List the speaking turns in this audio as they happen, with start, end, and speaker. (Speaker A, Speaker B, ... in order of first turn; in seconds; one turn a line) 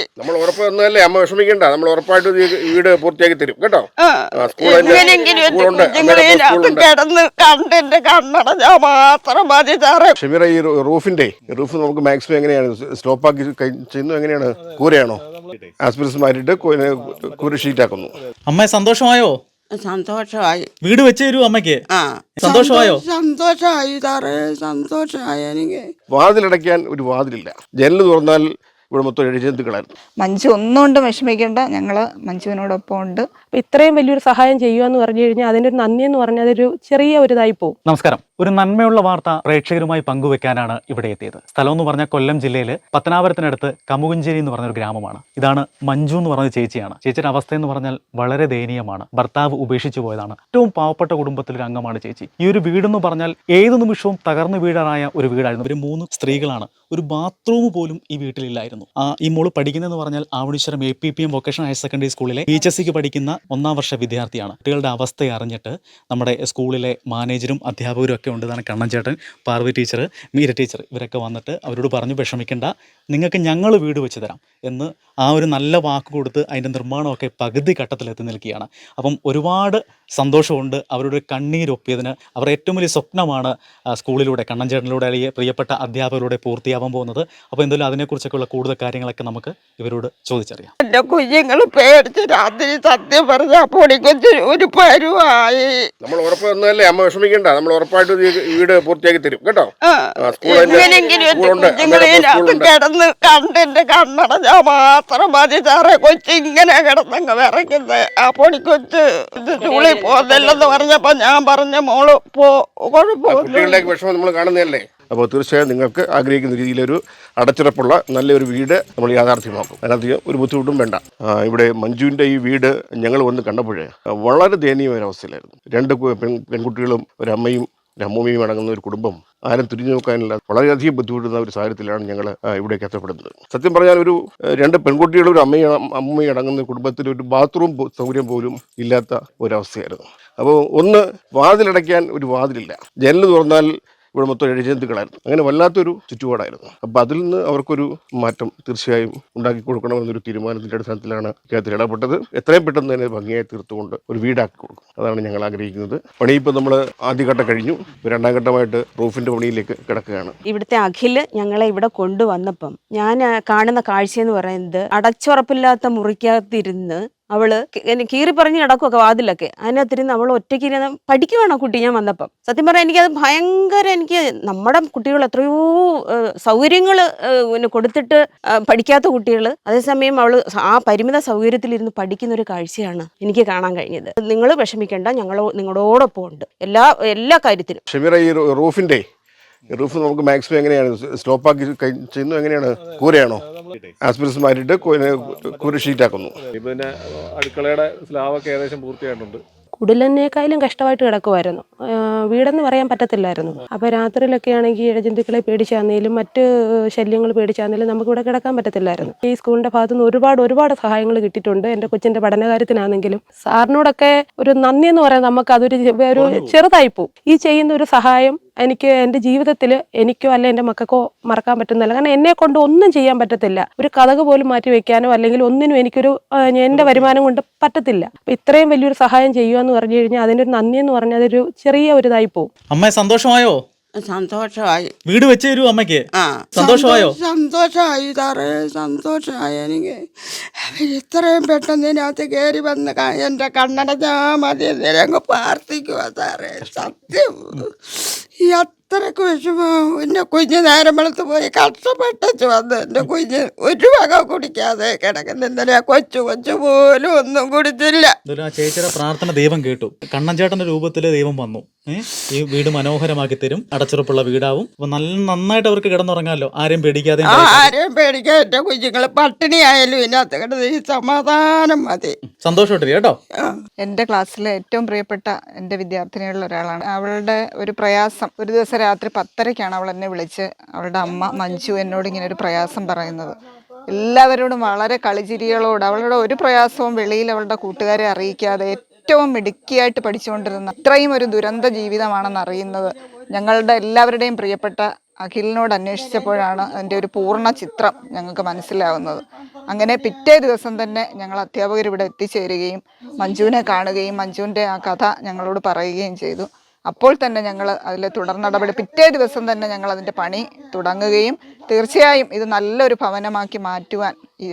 Speaker A: 0.2-3.8
Speaker B: 4.0-10.1
Speaker A: 4.4-6.9
Speaker A: 10.2-15.2
Speaker A: 15.8-18.1
Speaker C: 18.5-19.3
Speaker B: 19.7-20.6
Speaker C: 20.8-21.8
Speaker B: 21.9-25.9
Speaker C: 22.4-23.0
Speaker A: 26.1-29.9
Speaker D: 30.2-33.2
Speaker E: 33.6-37.8
Speaker C: 37.9-90.7
Speaker B: 90.8-95.7
Speaker A: 96.0-99.7
Speaker B: 99.8-113.9
Speaker A: 100.2-102.7
Speaker A: 113.3-160.3
Speaker F: 160.5-175.6
Speaker F: 176.4-187.8
Speaker A: 187.9-189.0
Speaker A: 189.7-193.4
Speaker A: 194.1-196.4
Speaker G: 196.5-199.4
Speaker E: 199.8-201.7
Speaker E: 202.3-232.5
Speaker C: 216.2-216.5
Speaker C: 232.7-233.6
Speaker B: 234.0-234.9
Speaker C: 235.1-236.0
Speaker B: 236.2-240.0
Speaker C: 236.6-237.1
Speaker B: 240.7-247.3
Speaker C: 246.6-246.9
Speaker B: 248.4-258.1
Speaker C: 258.3-267.7
Speaker B: 267.2-272.1
Speaker C: 272.4-273.2
Speaker D: 273.8-283.3
Speaker D: 283.9-314.2